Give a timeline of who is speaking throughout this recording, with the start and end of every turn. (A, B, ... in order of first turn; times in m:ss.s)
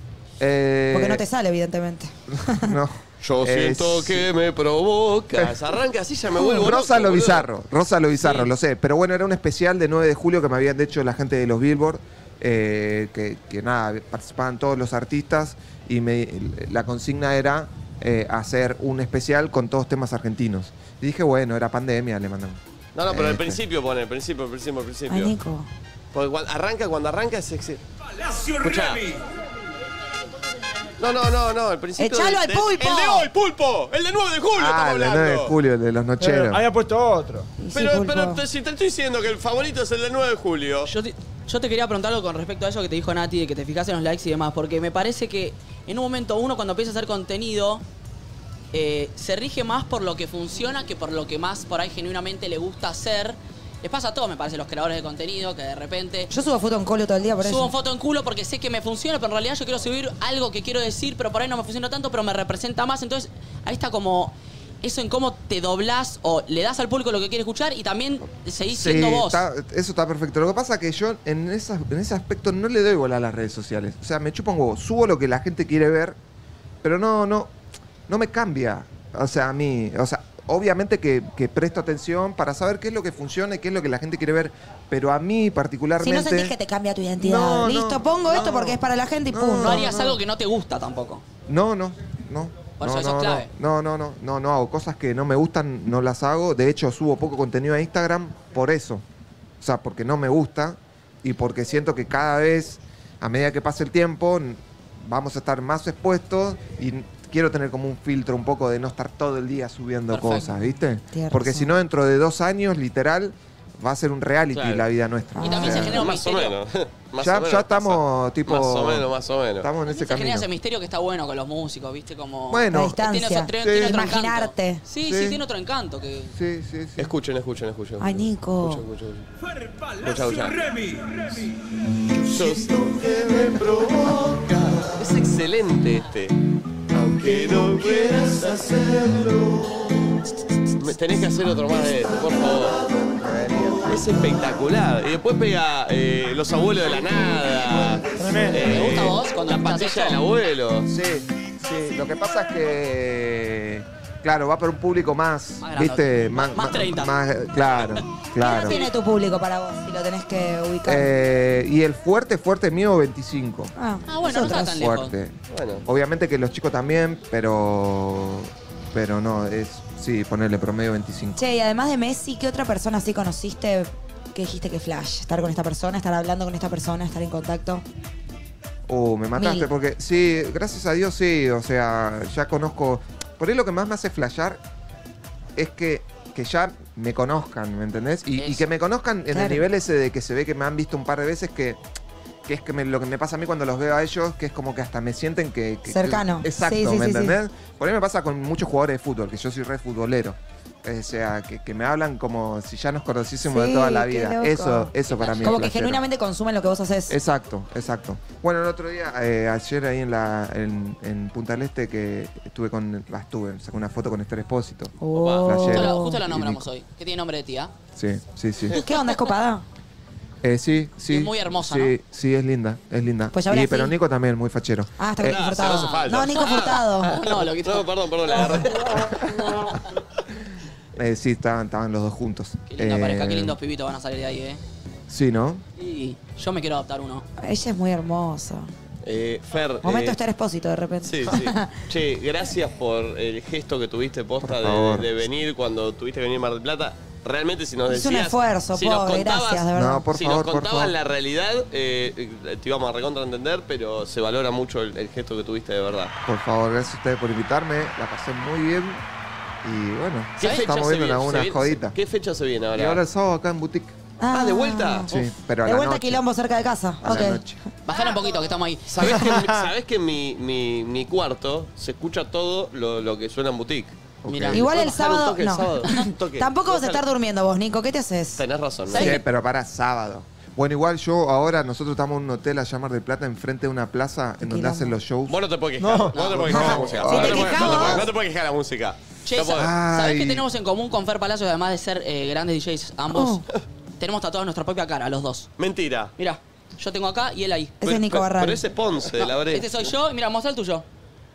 0:00.4-0:01.2 A
0:00.9-0:02.8 B
0:02.3-0:04.3 A
0:03.2-0:07.5 C
0:05.3-0:05.7 A
0:06.4-0:06.7 B
0:06.5-0:23.6 A
0:23.0-0:25.3 C
0:25.1-0:25.7 B
0:26.1-0:29.2 C
0:31.0-0:35.6 C
0:32.0-0:33.3 B
0:34.6-0:36.6 A
0:36.2-0:37.5 D
0:37.6-0:38.4 B
0:37.7-0:40.9 C
0:40.9-0:47.8 E
0:48.7-0:56.3 E
0:56.3-0:57.7 B
0:57.4-1:09.4 E
1:08.7-1:16.2 A
1:16.8-1:17.5 A
1:18.1-1:26.5 A
1:26.0-1:29.9 B
1:27.2-1:30.2 A
1:29.6-1:31.2 E
1:31.5-1:39.0 A
1:32.8-1:33.5 E
1:39.6-1:56.1 A
1:50.1-1:50.6 E
1:51.1-1:51.7 B
1:54.5-1:54.8 C
1:55.4-1:56.1 B
1:55.4-1:56.6 E
1:55.8-1:59.7 C
1:57.2-1:59.1 A
1:59.6-2:00.5 A
1:59.9-2:06.3 E
2:02.5-2:03.0 A
2:02.7-2:04.8 B
2:03.6-2:04.0 A
2:05.0-2:05.4 A
2:06.3-2:07.1 A
2:07.0-2:09.3 C
2:08.0-2:08.8 B
2:09.9-2:11.5 C
2:12.2-2:16.4 C
2:12.2-2:12.6 A
2:16.9-2:19.9 C
2:20.8-2:22.8 C
2:23.1-2:23.9 A
2:23.8-2:30.9 C
2:28.2-2:28.6 D
2:28.6-2:30.2 E
2:30.9-2:38.8 A
2:35.6-2:37.2 E
2:38.4-2:41.1 B
2:38.4-2:38.9 E
2:40.8-2:43.7 A
2:43.8-2:44.8 B
2:44.1-2:45.1 E
2:44.4-2:51.4 A
2:45.5-2:45.8 C
2:51.4-2:57.8 B
2:58.9-3:04.6 A
2:59.4-2:59.7 B
3:05.6-3:11.8 A
3:08.4-3:08.7 E
3:09.3-3:09.6 B
3:12.4-3:26.0 A
3:15.9-3:17.4 B
3:23.4-3:24.9 B
3:25.1-3:25.7 E
3:25.4-3:27.2 B
3:27.1-3:36.6 A
3:35.0-3:36.2 B
3:35.2-3:37.7 E
3:38.0-3:38.8 A
3:38.7-3:39.6 B
3:40.4-3:45.0 A
3:41.1-3:41.9 E
3:43.3-3:44.0 B
3:45.0-3:47.2 B
3:45.2-3:49.9 C
3:45.6-3:49.7 E
3:51.0-3:53.6 A
3:52.7-3:54.6 E
3:55.1-3:55.6 A
3:55.8-3:57.2 E
3:57.4-3:58.7 B
3:59.0-4:00.2 C
3:59.8-4:01.8 B
4:01.0-4:16.1 C
4:04.4-4:05.1 A
4:07.9-4:10.1 B
4:09.7-4:10.9 A
4:16.3-4:19.0 A
4:19.6-4:22.0 A
4:20.4-4:23.0 C
4:20.4-4:20.7 E
4:22.7-4:24.0 A
4:24.2-4:27.4 B
4:24.3-4:25.2 C
4:25.1-4:26.2 A
4:27.0-4:27.6 A
4:27.8-4:29.2 E
4:28.9-4:34.0 C
4:34.2-4:34.7 A
4:34.3-4:34.7 E
4:34.5-4:37.0 C
4:34.5-4:38.4 B
4:38.4-4:39.2 C
4:38.9-4:39.2 E
4:38.9-4:45.4 A
4:44.4-4:45.0 B
4:45.3-4:49.7 C
4:45.8-4:47.1 D
4:46.2-4:47.7 E
4:46.5-4:48.1 B
4:46.9-4:48.1 A
4:49.3-4:53.4 E
4:49.5-4:50.4 A
4:53.1-4:53.4 B
4:54.0-4:55.5 E
4:55.6-4:56.1 C
4:56.2-4:57.8 E
4:57.8-4:58.6 B
4:57.8-4:59.9 C
4:59.2-5:00.8 E